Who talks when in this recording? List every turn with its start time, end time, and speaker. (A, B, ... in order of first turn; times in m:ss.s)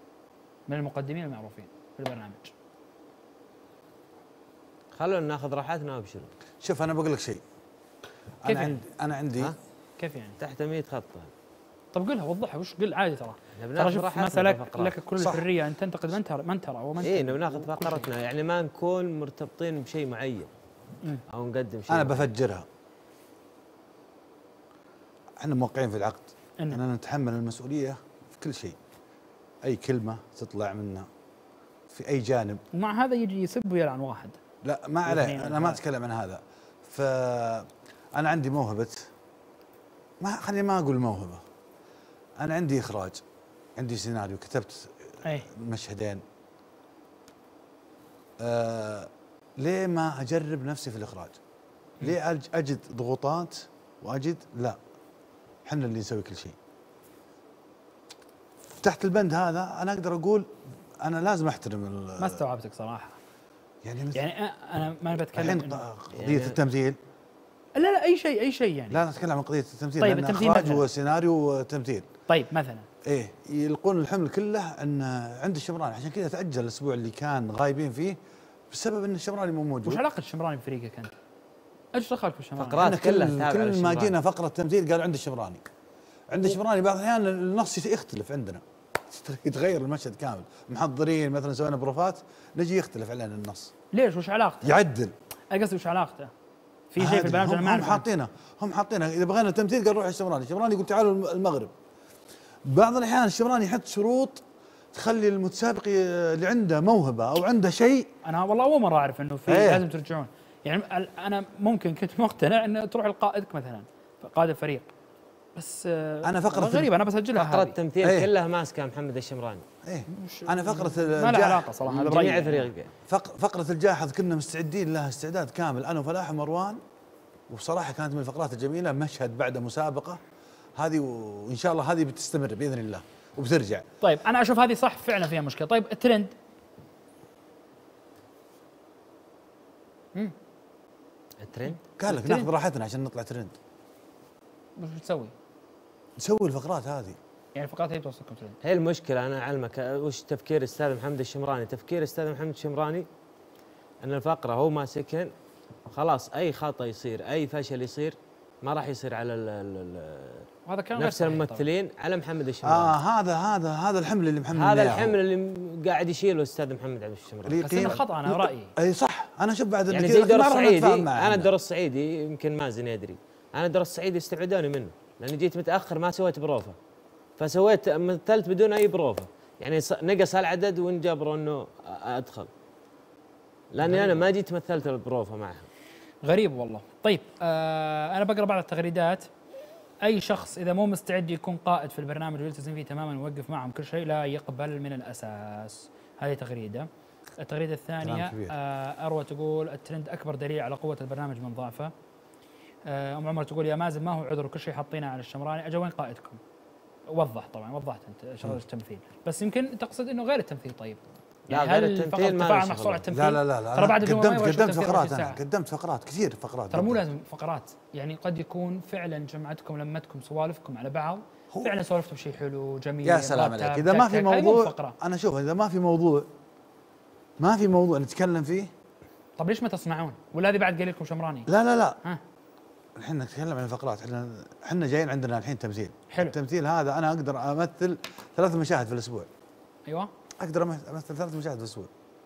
0:00.7-0:02.5 A
0:04.9-0:06.3 B
0:06.6-0:07.4 C
0:08.4-0:09.5 C
0:08.4-0:08.8 A
0:10.0-0:10.4 A
0:10.4-0:11.3 B
0:11.9-0:18.1 A
0:13.6-0:15.0 B
0:15.2-0:15.5 C
0:17.0-0:20.5 B
0:21.3-0:22.3 B
0:21.9-0:22.6 C
0:25.4-0:28.8 C
0:29.6-0:31.1 C
0:31.9-0:32.6 C
0:32.7-0:34.4 A
0:34.6-0:39.1 C
0:35.0-0:35.8 A
0:40.2-0:41.4 C
0:42.4-0:43.2 C
0:43.8-0:46.2 C
0:48.4-0:51.4 C
0:52.0-0:54.8 C
0:55.6-0:56.6 C
0:58.8-1:00.5 C
1:01.0-1:02.4 C
1:02.2-1:03.2 A
1:03.8-1:04.2 C
1:04.1-1:05.8 A
1:05.3-1:07.0 C
1:06.1-1:06.6 B
1:07.8-1:09.0 A
1:08.9-1:12.1 C
1:10.0-1:10.8 A
1:12.3-1:12.9 A
1:13.0-1:18.2 C
1:18.7-1:20.0 C
1:19.8-1:21.1 A
1:21.9-1:22.9 A
1:22.6-1:24.2 B
1:22.8-1:25.6 C
1:26.3-1:33.7 C
1:33.9-1:34.8 A
1:34.6-1:35.1 C
1:35.5-1:36.3 A
1:36.9-1:38.0 A
1:37.0-1:41.7 C
1:42.6-1:48.1 C
1:48.2-1:54.9 A
1:49.5-1:49.8 C
1:55.6-1:57.8 A
1:56.2-1:56.9 C
1:57.3-1:59.6 B
1:58.0-1:58.3 C
1:59.8-2:01.7 C
2:00.1-2:02.7 A
2:01.8-2:02.9 B
2:03.1-2:06.8 C
2:07.5-2:10.2 C
2:10.8-2:13.8 C
2:14.0-2:16.3 A
2:21.4-2:21.8 B
2:21.6-2:22.5 A
2:22.0-2:23.5 C
2:24.8-2:25.3 A
2:26.2-2:27.2 C
2:27.5-2:28.6 A
2:28.6-2:33.0 B
2:34.0-2:35.3 B
2:35.9-2:43.0 B
2:40.6-2:41.7 A
2:42.6-2:45.2 C
2:44.5-2:48.0 B
2:47.4-2:51.5 C
2:47.6-2:48.7 A
2:49.9-2:56.8 B
2:57.4-3:02.5 B
3:03.7-3:05.7 B
3:03.8-3:04.2 A
3:06.2-3:09.3 A
3:10.0-3:21.9 A
3:18.0-3:18.6 C
3:22.8-3:26.4 A
3:27.1-3:31.0 A
3:31.5-3:33.1 B
3:31.5-3:35.4 A
3:33.1-3:37.0 C
3:36.7-3:45.0 A
3:43.0-3:46.3 C
3:47.4-3:48.7 C
3:49.4-3:51.5 A
3:51.5-3:52.0 C
3:53.0-3:59.3 C
3:56.1-3:56.3 A
4:00.4-4:01.9 C